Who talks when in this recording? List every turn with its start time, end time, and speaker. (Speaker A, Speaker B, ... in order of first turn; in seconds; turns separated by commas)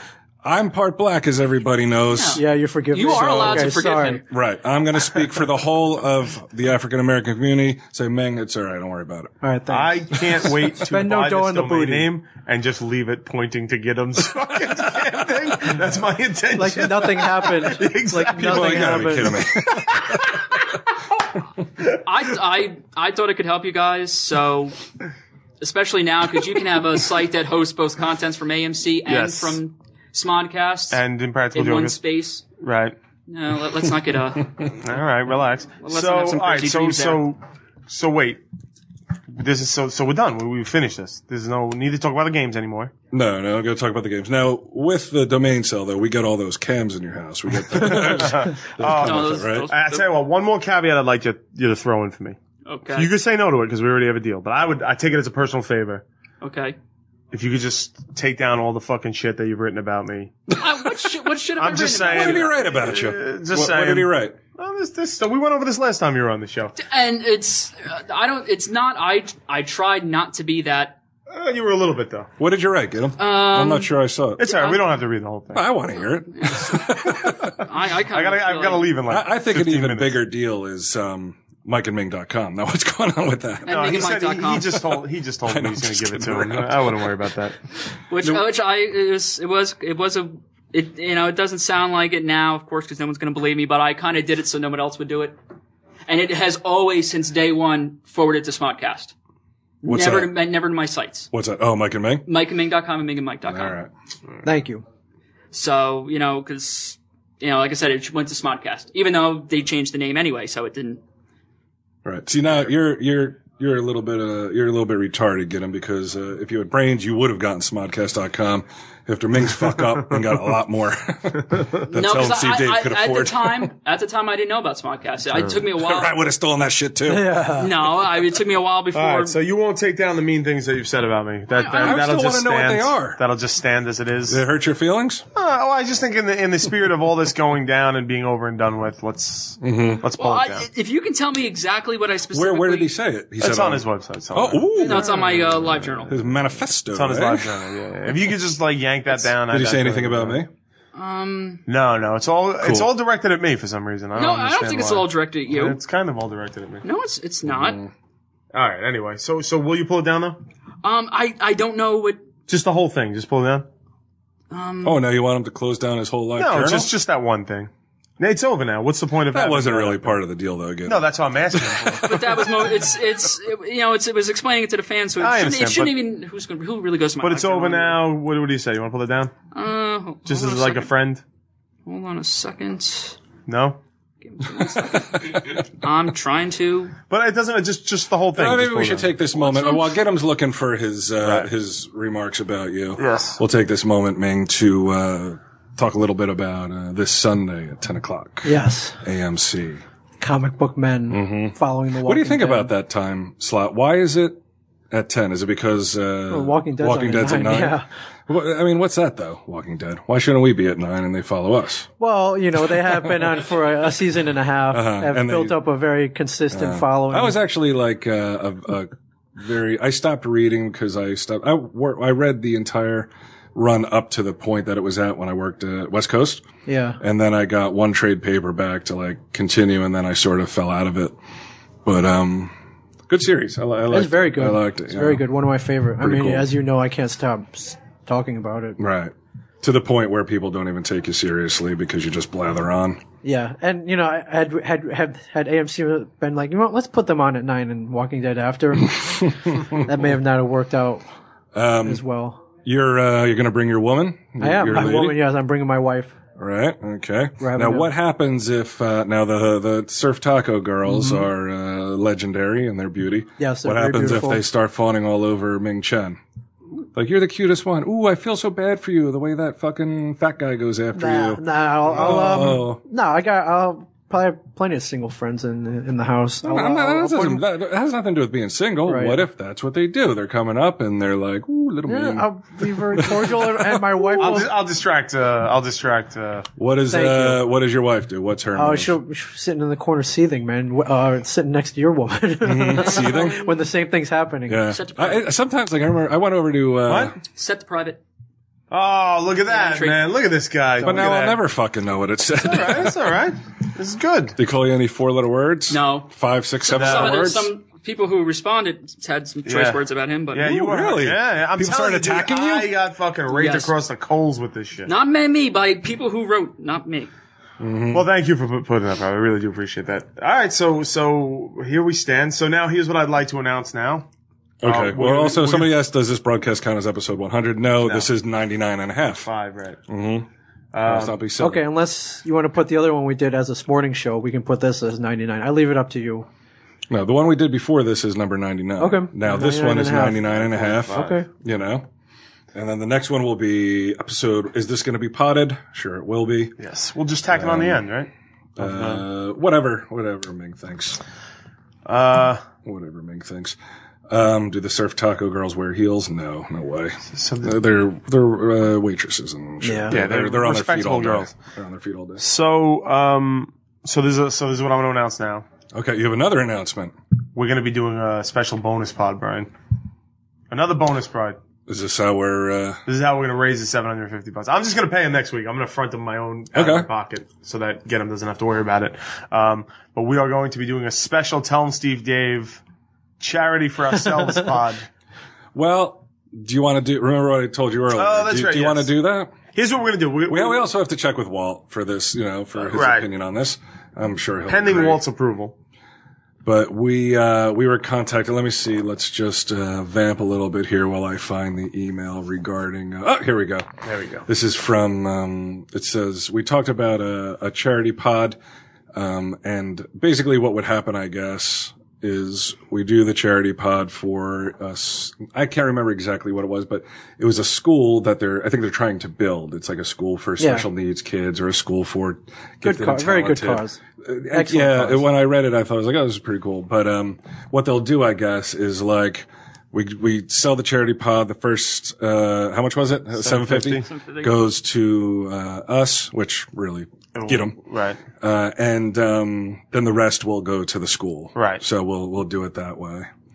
Speaker A: 0.4-2.4, Speaker B: 2.1-4.2, Speaker C: 2.3-4.2, Speaker A: 3.0-3.7, Speaker A: 4.3-9.3, Speaker C: 9.4-12.1, Speaker D: 9.7-19.1, Speaker C: 16.6-19.4, Speaker A: 18.3-20.3, Speaker D: 19.7-20.4, Speaker B: 21.9-24.8, Speaker B: 25.6-32.4, Speaker D: 29.1-29.6, Speaker D: 30.9-32.0, Speaker D: 32.6-33.0, Speaker B: 33.3-34.7, Speaker D: 34.8-38.4, Speaker B: 35.8-37.3, Speaker D: 39.3-42.9, Speaker A: 43.1-49.7, Speaker D: 47.8-52.4, Speaker B: 48.8-50.2, Speaker B: 52.6-53.1, Speaker D: 52.9-56.0, Speaker B: 56.4-56.8, Speaker D: 57.3-60.4, Speaker B: 60.5-62.6, Speaker D: 61.6-66.8, Speaker A: 62.1-64.4, Speaker B: 66.8-71.0, Speaker D: 71.3-72.3, Speaker A: 72.4-74.5, Speaker B: 73.2-73.9, Speaker D: 74.4-75.7, Speaker B: 74.5-74.8, Speaker A: 75.5-77.7, Speaker B: 76.3-79.0, Speaker D: 78.1-80.2, Speaker A: 79.1-83.9, Speaker B: 83.7-85.0, Speaker D: 83.7-87.6, Speaker A: 85.5-87.1, Speaker B: 88.1-95.4, Speaker B: 96.1-99.1, Speaker B: 99.8-101.3, Speaker A: 99.8-100.3, Speaker A: 101.3-102.2, Speaker B: 102.3-103.8, Speaker A: 103.5-103.9, Speaker C: 104.4-104.8, Speaker B: 105.5-111.0, Speaker A: 112.0-123.7, Speaker B: 121.9-126.1, Speaker A: 125.7-127.5, Speaker C: 127.1-127.7, Speaker B: 127.6-129.4, Speaker D: 128.9-134.4, Speaker B: 131.5-132.1, Speaker A: 131.8-133.2, Speaker A: 134.3-135.2, Speaker D: 135.3-140.7, Speaker A: 139.6-140.0, Speaker B: 140.2-142.9, Speaker A: 142.3-145.5, Speaker D: 143.4-146.1, Speaker B: 144.8-146.1, Speaker A: 146.1-147.6, Speaker D: 146.9-150.4, Speaker A: 149.4-150.5, Speaker B: 150.9-151.6, Speaker D: 151.7-156.8, Speaker A: 152.6-152.9, Speaker B: 154.1-155.8, Speaker B: 156.8-157.8, Speaker A: 157.4-157.9, Speaker D: 158.5-160.4, Speaker B: 160.8-162.2, Speaker D: 162.5-163.7, Speaker B: 164.5-165.0, Speaker A: 164.8-166.9, Speaker D: 166.4-170.2, Speaker A: 169.3-172.3, Speaker D: 170.8-172.4, Speaker B: 172.0-178.1, Speaker D: 175.2-175.9, Speaker D: 177.2-179.3, Speaker B: 179.5-180.9, Speaker D: 180.3-181.2, Speaker B: 181.9-183.2, Speaker D: 183.5-183.8, Speaker B: 184.2-186.9, Speaker A: 184.6-185.5, Speaker D: 187.1-189.1, Speaker A: 188.3-199.8, Speaker B: 189.3-189.9, Speaker D: 191.2-191.5, Speaker D: 193.0-193.4, Speaker C: 198.4-199.0, Speaker C: 200.2-202.7, Speaker A: 201.1-211.9, Speaker C: 206.3-207.9, Speaker C: 212.0-217.4, Speaker A: 213.0-213.3, Speaker A: 214.7-215.6, Speaker A: 216.5-226.4, Speaker C: 226.7-227.0, Speaker A: 227.0-231.2, Speaker A: 231.8-232.5, Speaker A: 233.1-235.2, Speaker C: 233.9-238.8, Speaker A: 236.0-236.5, Speaker A: 238.8-243.0, Speaker C: 243.2-251.1, Speaker A: 249.0-249.9, Speaker A: 251.5-252.0, Speaker C: 251.8-252.4, Speaker A: 252.6-255.2, Speaker C: 254.4-256.2, Speaker A: 256.4-266.2, Speaker C: 257.4-257.9, Speaker C: 260.9-261.3, Speaker C: 263.4-264.4, Speaker A: 266.9-272.8, Speaker C: 270.9-277.4, Speaker A: 276.4-284.4, Speaker C: 278.9-279.2, Speaker C: 281.9-284.5, Speaker D: 284.2-286.5, Speaker A: 286.6-288.9, Speaker C: 286.9-287.4, Speaker C: 288.6-294.6, Speaker A: 292.4-293.4, Speaker B: 292.7-293.6, Speaker A: 294.5-297.1, Speaker B: 294.7-295.2, Speaker D: 296.9-297.1, Speaker B: 297.3-298.0, Speaker D: 298.7-301.4, Speaker B: 299.5-300.0, Speaker C: 300.8-301.1, Speaker A: 300.8-303.0, Speaker D: 302.4-304.4, Speaker A: 304.4-307.5, Speaker B: 305.7-310.5, Speaker D: 306.7-307.3, Speaker D: 309.4-309.8, Speaker D: 310.3-314.9, Speaker A: 310.4-312.7, Speaker B: 313.3-313.7, Speaker B: 314.9-317.1, Speaker A: 317.6-318.1, Speaker D: 317.9-324.1, Speaker A: 324.6-329.3, Speaker D: 324.6-325.7, Speaker D: 327.8-328.1, Speaker D: 329.2-329.8, Speaker A: 329.9-330.3, Speaker D: 330.7-331.2, Speaker A: 330.8-331.6, Speaker C: 331.4-336.3, Speaker A: 336.9-341.9, Speaker C: 338.8-341.3, Speaker D: 340.3-341.2, Speaker A: 342.5-346.6, Speaker D: 346.6-349.0, Speaker A: 347.3-347.8, Speaker A: 348.6-351.0, Speaker D: 351.9-352.4, Speaker A: 352.6-353.6, Speaker A: 354.1-362.2, Speaker D: 357.1-357.6, Speaker C: 359.6-360.0, Speaker D: 359.9-361.3, Speaker D: 362.2-365.4, Speaker A: 365.7-366.9, Speaker D: 367.4-369.5, Speaker D: 370.5-371.4, Speaker A: 371.7-372.8, Speaker D: 372.9-382.6, Speaker A: 376.5-376.9, Speaker D: 383.2-384.9, Speaker A: 385.6-389.3, Speaker D: 387.9-388.9, Speaker D: 389.5-390.6, Speaker A: 390.3-395.0, Speaker D: 392.6-393.1, Speaker D: 394.5-395.6, Speaker A: 396.4-403.6, Speaker D: 403.8-404.3, Speaker A: 404.3-408.4, Speaker A: 408.9-437.6, Speaker C: 420.4-420.6, Speaker C: 422.6-423.8, Speaker C: 424.3-425.0, Speaker D: 433.1-433.9, Speaker B: 433.9-434.4, Speaker D: 437.1-438.0, Speaker A: 438.2-443.1, Speaker D: 441.4-441.6